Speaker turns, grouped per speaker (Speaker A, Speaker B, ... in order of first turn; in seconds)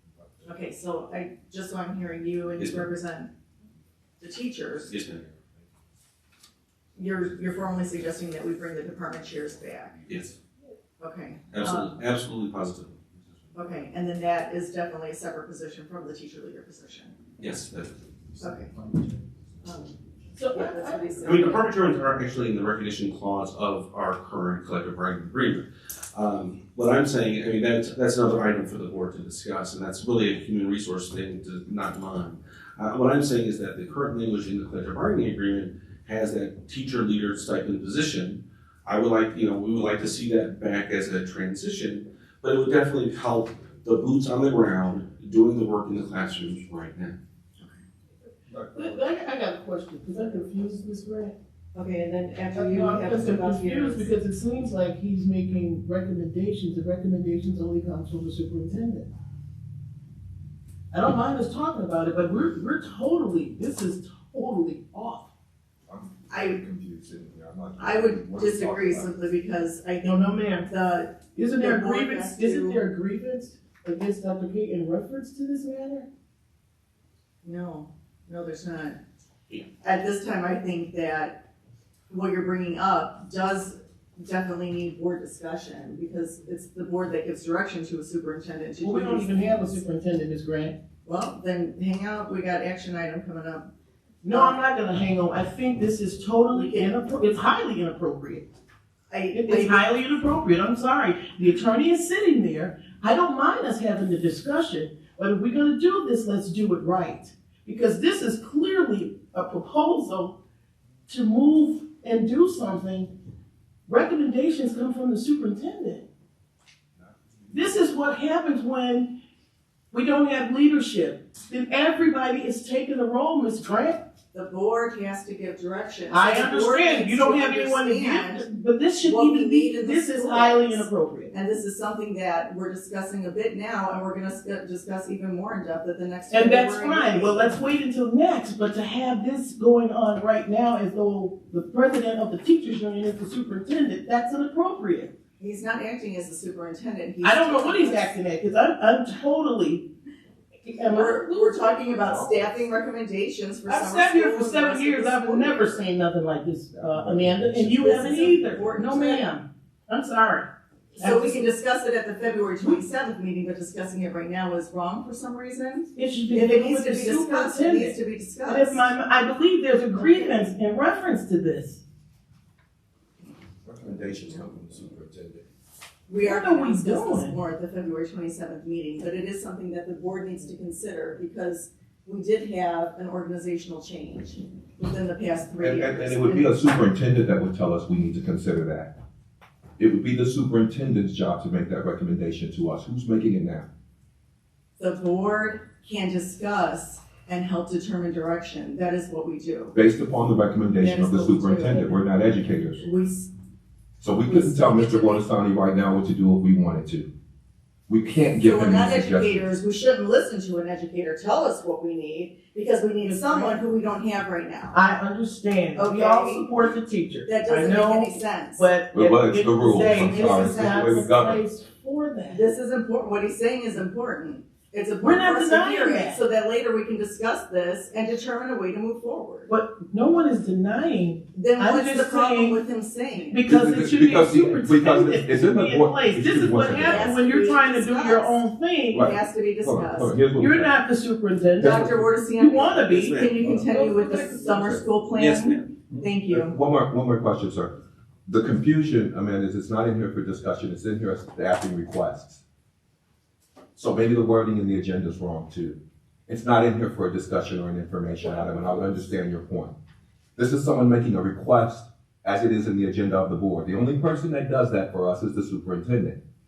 Speaker A: 0.5-3.3, 4.2-4.9, 7.0-9.9, 11.0-11.9, 13.5-17.2, 18.4-18.7, 19.6-20.0, 20.5-21.7, 51.8-54.1, 66.3-66.6, 67.8-72.8, 77.4-79.0, 79.8-81.5, 82.1-89.8, 91.1-93.7, 94.3-94.6, 96.5-96.9, 99.1-99.9, 124.3-128.4, 129.0-137.6, 145.4-148.2, 150.8-155.8, 157.8-159.3, 161.0-168.9, 169.9-170.4, 176.1-186.5, 194.8-199.8, 200.8-202.0, 202.8-203.3, 204.3-205.2, 208.3-214.8, 215.8-216.8, 217.3-218.7, 219.7-221.0, 222.3-229.5, 231.3-233.5, 236.8-238.4, 239.0-240.2, 241.6-246.5
Speaker B: 2.6-2.8, 4.9-5.2, 10.1-10.3, 11.5-13.0, 17.4-17.9, 21.2-47.1, 242.9-243.4, 245.2-245.7
Speaker C: 20.4-21.6, 48.7-51.4, 52.5-59.1, 60.9-65.3, 70.0-70.7, 71.3-76.1, 88.8-90.8, 94.2-98.5, 99.3-110.4, 111.1-113.1, 113.9-116.1, 117.5-119.1, 119.9-124.0, 126.1-131.3, 136.3-145.1, 147.2-149.9, 150.7-151.8, 153.7-161.5, 165.9-171.8, 176.2-177.4, 213.0-213.6, 214.7-222.4, 225.0-226.2, 229.5-232.6, 233.3-239.1, 240.4-244.6
Speaker D: 48.5-49.1, 65.9-69.1, 117.0-117.8, 152.1-152.4, 156.8-158.2, 173.7-175.4, 185.6-188.9, 189.8-193.7, 199.7-202.8, 204.0-207.1, 207.9-209.5, 218.9-221.4, 233.5-237.1, 238.9-240.8, 241.6-242.0, 243.4-244.0, 244.5-244.8, 246.3-247.7, 248.3-252.4, 253.8-259.7, 260.4-266.2